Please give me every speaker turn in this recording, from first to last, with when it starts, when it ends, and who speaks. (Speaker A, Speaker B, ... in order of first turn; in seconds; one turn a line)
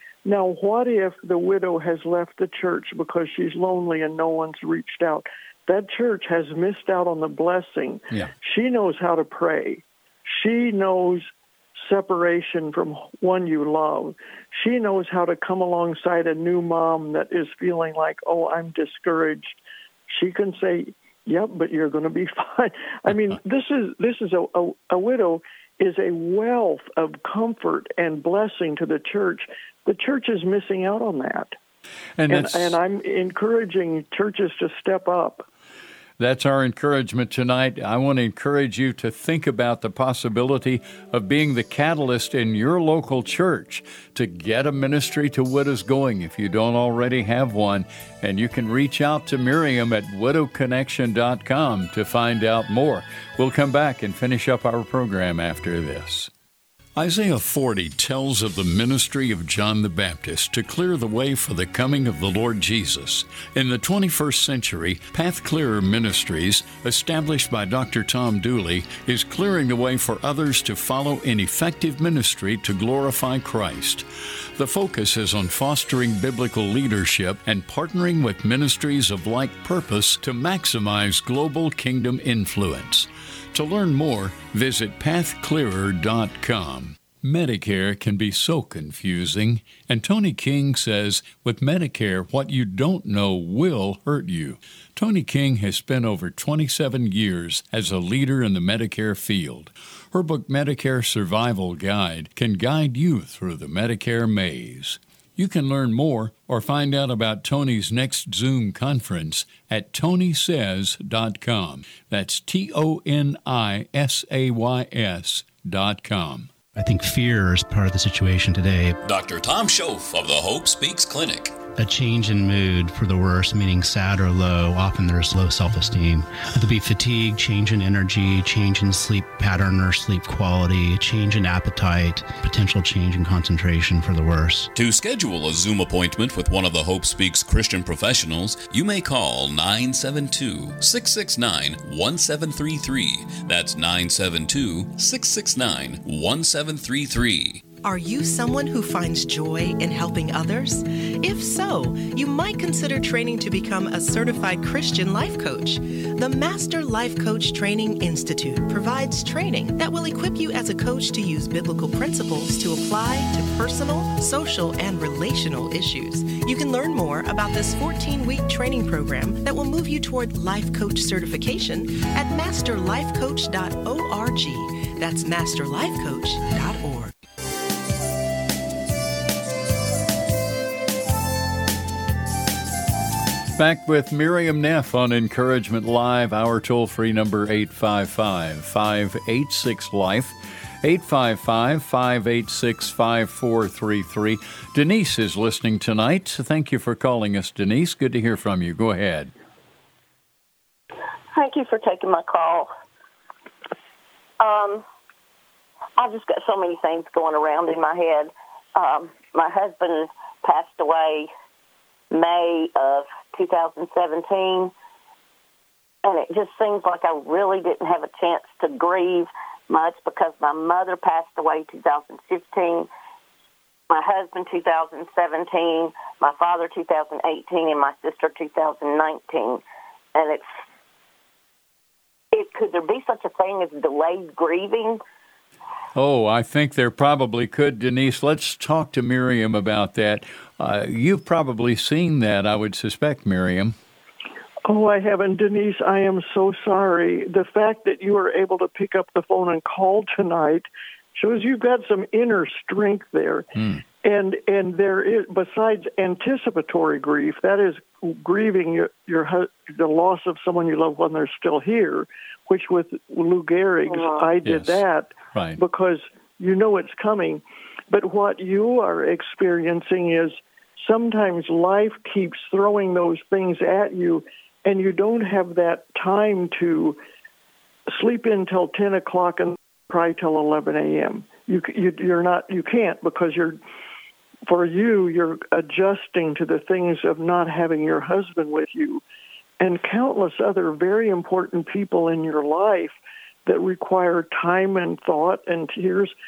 Speaker A: 0.2-19.6
Speaker A: 20.1-31.6
Speaker B: 32.2-32.8
Speaker A: 32.3-35.5
Speaker B: 36.2-56.3
Speaker B: 57.0-116.5
Speaker C: 116.8-119.0
Speaker D: 119.0-121.6
Speaker C: 121.8-134.7
Speaker D: 134.8-147.7
Speaker E: 147.8-177.1
Speaker B: 183.6-199.3
Speaker F: 201.3-202.7
Speaker F: 204.4-204.8
Speaker F: 206.0-211.3
Speaker F: 212.1-214.7
Speaker F: 216.0-222.9
Speaker F: 223.9-229.6
Speaker F: 230.2-230.5
Speaker F: 232.3-235.0
Speaker B: 235.9-243.8
Speaker A: 244.7-253.5
Speaker B: 253.6-253.8
Speaker A: 254.0-277.0
Speaker B: 264.4-264.8
Speaker B: 265.3-265.6
Speaker A: 277.9-283.6
Speaker A: 284.5-289.0
Speaker A: 289.6-292.9
Speaker A: 293.5-296.1